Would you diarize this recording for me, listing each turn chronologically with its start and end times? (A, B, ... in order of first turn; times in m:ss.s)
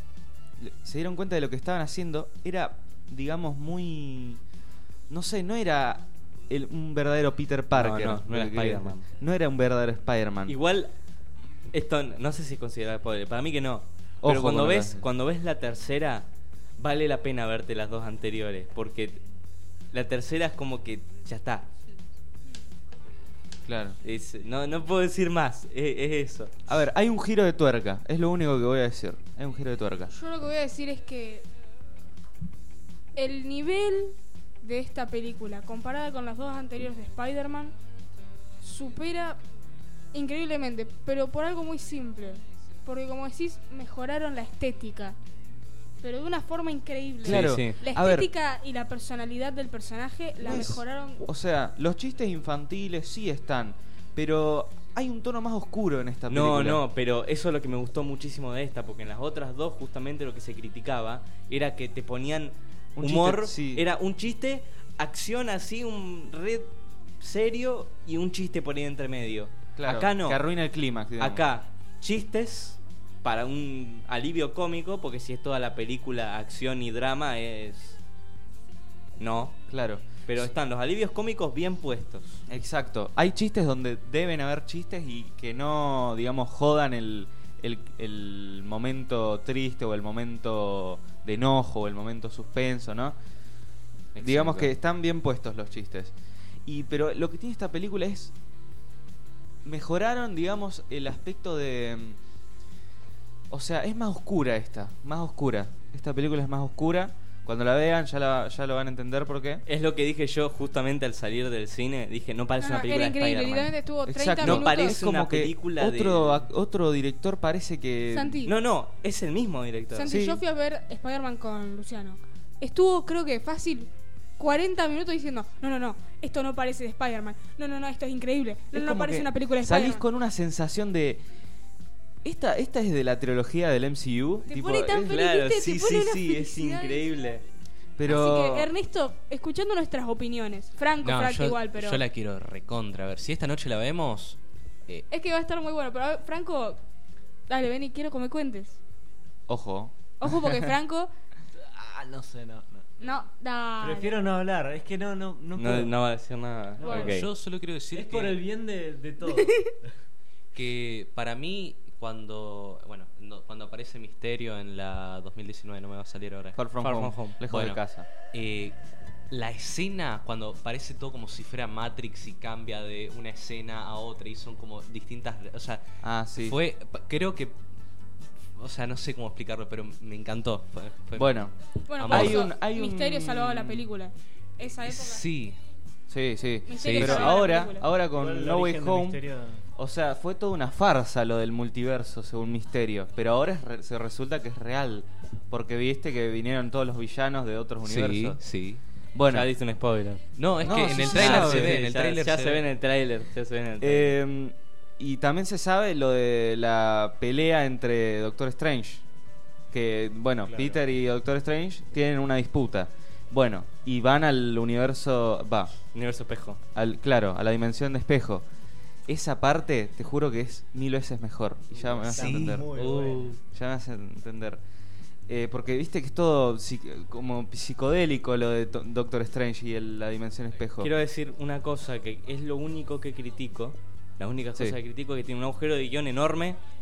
0:00.6-0:04.4 A
0:05.1-0:10.6 A
0:07.7-0:09.1 B
0:10.5-0:10.9 B
0:11.7-0:16.2 B
0:14.2-0:15.0 A
0:16.8-0:19.2 B
0:19.9-0:21.7 B
0:23.6-0:24.0 A
0:24.0-0:26.5 B
0:26.7-0:30.1 A
0:30.1-0:31.4 C
0:33.2-0:37.7 C
0:38.6-0:39.4 C
0:40.1-0:45.2 C
0:46.0-0:51.2 C
0:47.2-0:47.8 B
0:47.2-0:48.3 A
0:50.4-0:56.8 A
0:56.3-1:06.7 B
1:03.0-1:03.8 A
1:07.2-1:10.4 B
1:09.8-1:11.4 A
1:11.2-1:18.0 B
1:19.2-1:19.6 B
1:19.7-1:20.2 A
1:20.2-1:22.4 B
1:22.5-1:33.2 A
1:34.1-1:34.7 B
1:34.2-1:36.1 A
1:36.6-1:38.3 A
1:39.6-1:42.2 A
1:43.5-1:49.6 A
1:49.7-1:53.7 B
1:52.6-1:55.0 C
1:54.1-1:58.4 A
1:54.4-1:56.5 B
1:58.1-1:58.5 C
1:58.4-2:00.1 B
1:59.9-2:10.0 C
2:00.0-2:00.4 A
2:08.7-2:11.2 A
2:12.2-2:15.2 A
2:14.4-2:17.0 C
2:15.0-2:17.4 B
2:18.0-2:18.7 A
2:18.0-2:22.0 C
2:21.0-2:25.0 D
2:25.1-2:26.8 C
2:27.5-2:28.8 C
2:29.5-2:30.6 A
2:30.2-2:31.1 C
2:31.6-2:33.2 E
2:33.0-2:34.2 C
2:33.8-2:35.9 E
2:35.6-2:37.3 B
2:36.8-2:37.2 E
2:36.8-2:37.2 C
2:37.0-2:38.4 D
2:37.9-2:39.9 E
2:39.4-2:39.7 C
2:40.5-2:46.6 D
2:46.6-2:48.1 A
2:46.8-2:47.4 B
2:47.5-2:47.8 D
2:48.3-2:48.8 D
2:49.3-2:55.8 D
2:56.0-2:56.6 A
2:56.3-2:57.6 D
2:58.6-3:02.5 D
3:01.1-3:01.5 A
3:01.9-3:05.2 C
3:02.1-3:03.9 A
3:04.8-3:05.6 D
3:06.1-3:09.2 A
3:06.7-3:07.9 C
3:06.8-3:07.4 D
3:08.0-3:09.6 E
3:09.7-3:18.4 A
3:17.8-3:18.8 D
3:19.1-3:19.5 A
3:19.2-3:24.1 B
3:20.4-3:22.6 D
3:20.6-3:21.8 A
3:23.8-3:29.0 A
3:29.7-3:35.7 A
3:30.4-3:30.8 E
3:35.9-3:36.6 B
3:36.7-3:38.4 A
3:39.1-3:42.7 A
3:42.0-3:43.3 E
3:42.1-3:43.4 D
3:43.5-3:44.6 A
3:45.3-3:50.9 A
3:50.8-3:56.6 B